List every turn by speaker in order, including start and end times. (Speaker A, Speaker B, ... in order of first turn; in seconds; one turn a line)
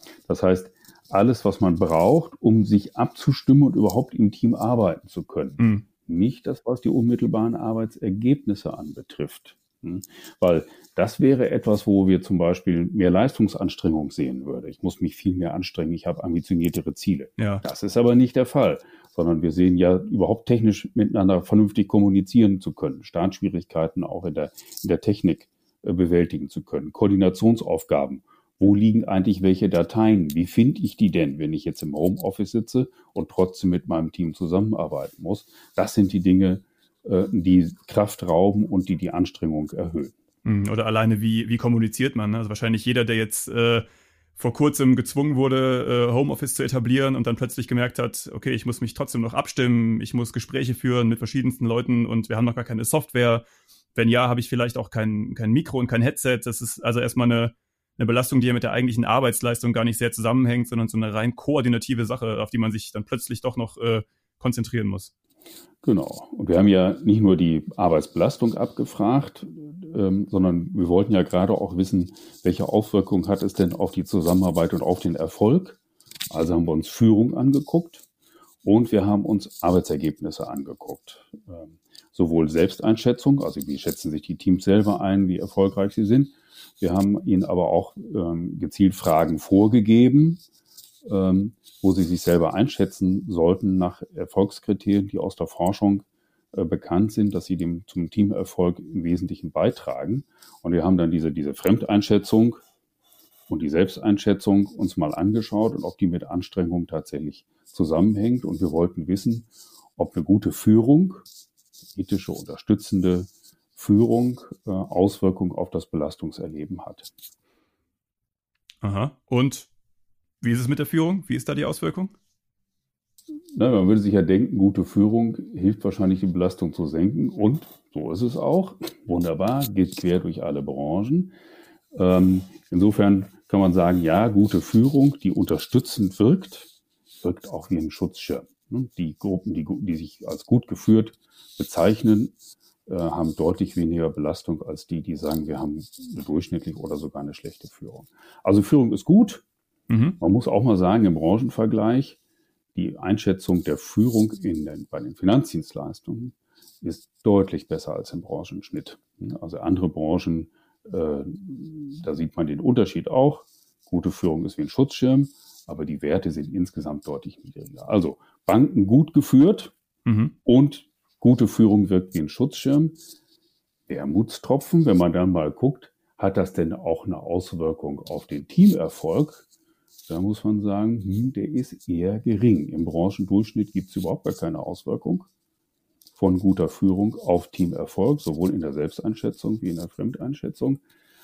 Speaker A: 0.3-40.1
Speaker B: 5.6-5.8
Speaker B: 17.4-17.6
Speaker B: 40.4-43.9
Speaker B: 44.4-53.4
Speaker B: 53.9-65.1
Speaker A: 65.8-75.8
Speaker A: 76.3-78.0
Speaker A: 78.6-90.4
Speaker A: 91.0-102.6
Speaker A: 103.5-111.2
Speaker A: 111.9-117.1
Speaker B: 118.8-119.7
Speaker B: 120.4-122.1
Speaker A: 123.5-131.3
Speaker A: 131.9-136.7
Speaker A: 137.2-142.3
Speaker A: 142.8-149.4
Speaker B: 149.9-150.2
Speaker A: 150.2-152.2
Speaker A: 152.7-169.7
Speaker B: 170.1-170.3
Speaker A: 170.4-173.0
Speaker A: 173.9-179.4
Speaker A: 180.1-185.3
Speaker A: 186.2-190.8